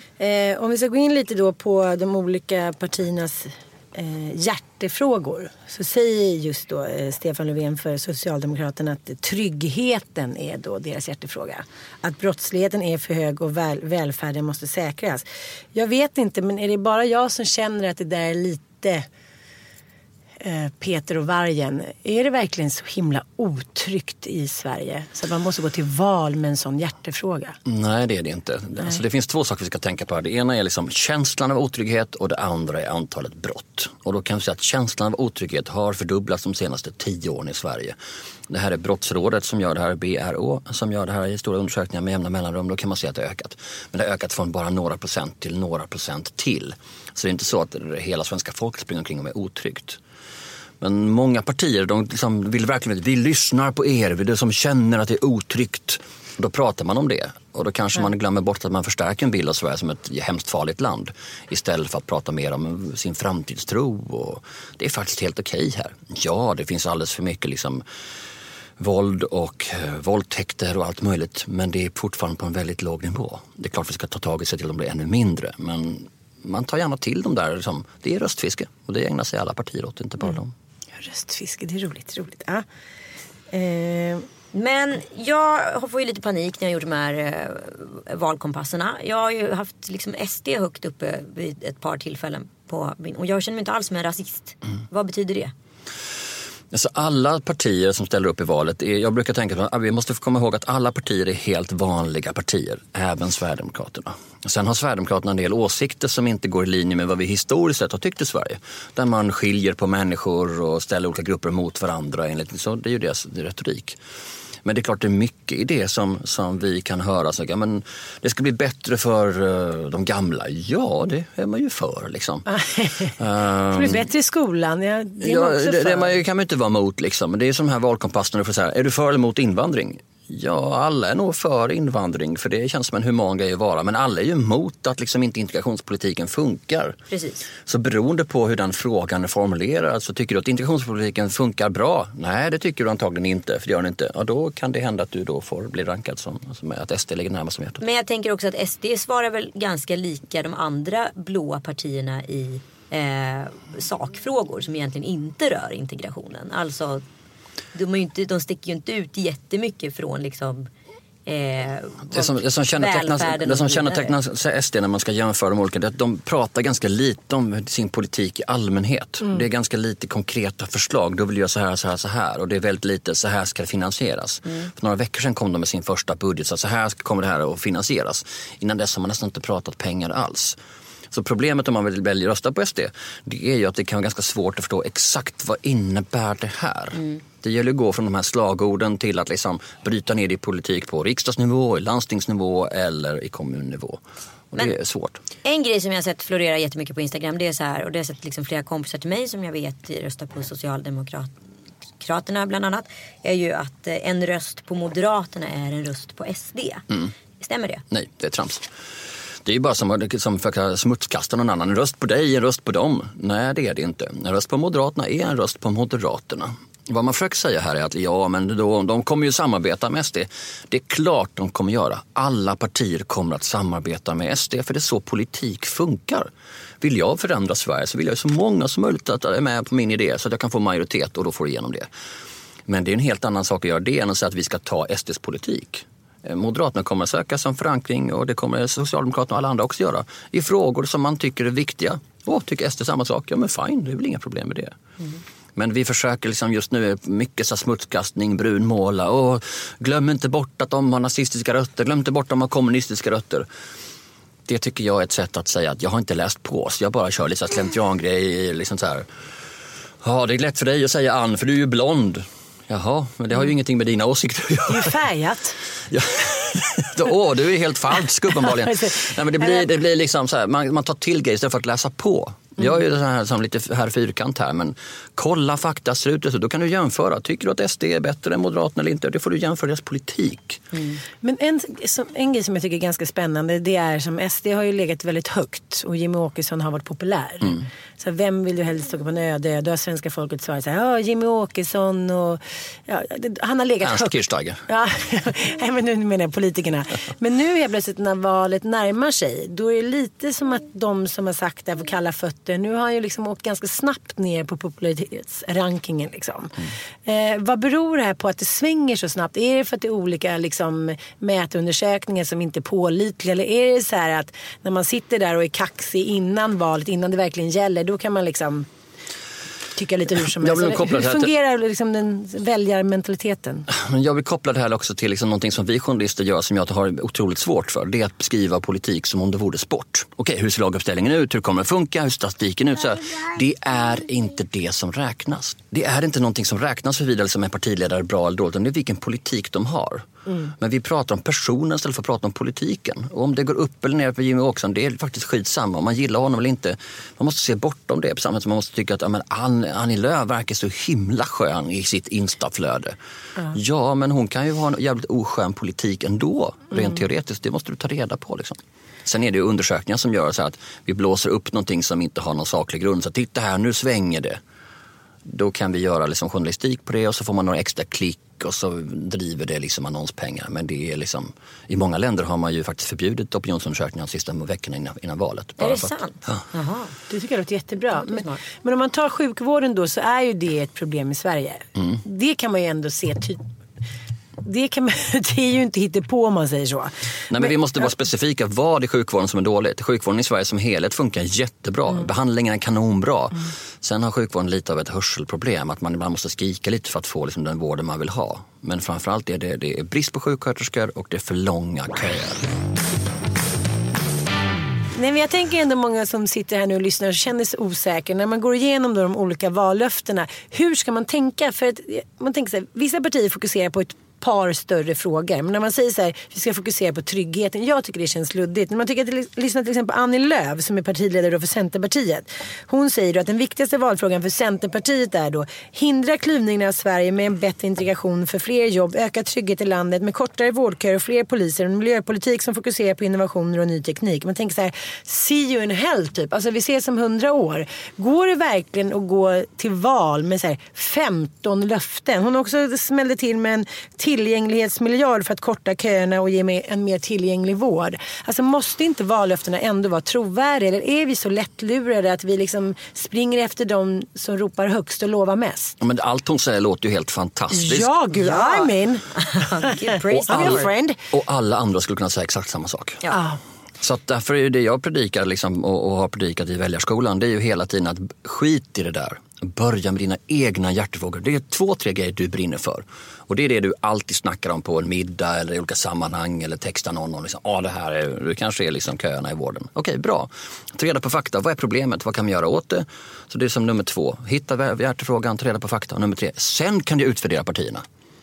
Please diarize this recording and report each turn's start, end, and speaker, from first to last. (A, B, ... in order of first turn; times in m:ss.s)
0:00.2-0:19.1 A
0:20.4-0:27.6 A
0:27.7-0:38.0 B
0:38.5-0:50.0 B
0:50.8-1:07.8 B
1:08.8-1:20.5 B
1:21.0-1:22.6 A
1:23.5-1:24.3 A
1:24.5-1:35.5 C
1:36.7-1:54.0 B
1:54.6-2:02.5 B
2:02.5-2:03.1 A
2:03.2-2:04.1 B
2:03.7-2:06.2 A
2:05.2-2:17.0 B
2:17.1-2:17.4 C
2:17.6-2:27.8 B
2:27.8-2:37.0 C
2:37.7-2:40.7 C
2:41.3-2:44.1 C
2:42.1-3:00.6 B
3:01.1-3:15.2 B
3:07.0-3:07.2 C
3:15.4-3:21.3 C
3:22.0-3:26.9 C
3:27.4-3:27.8 C
3:27.9-3:28.7 B
3:29.4-3:46.3 B
3:46.8-3:51.9 B
3:52.7-4:04.8 B
4:05.6-4:13.5 B
4:14.5-4:19.1 B
4:20.0-4:25.0 B
4:24.7-4:25.6 A
4:25.9-4:40.6 B
4:28.6-4:29.6 A
4:40.7-4:41.0 C
4:41.2-4:54.1 A
4:53.8-4:54.6 B
4:54.7-5:18.7 A
5:19.8-5:23.7 A
5:20.2-5:21.3 B
5:23.7-5:53.0 B
5:53.5-6:04.4 B
6:05.3-6:16.4 B
6:15.6-6:17.0 C
6:17.1-6:23.4 A
6:18.0-6:18.4 C
6:24.4-6:27.5 A
6:27.3-6:42.4 B
6:45.0-7:35.8 A
7:35.8-7:37.9 B
7:37.5-7:41.0 A
7:38.2-7:40.7 C
7:40.1-7:43.0 B
7:43.1-7:43.4 A
7:43.8-8:07.8 B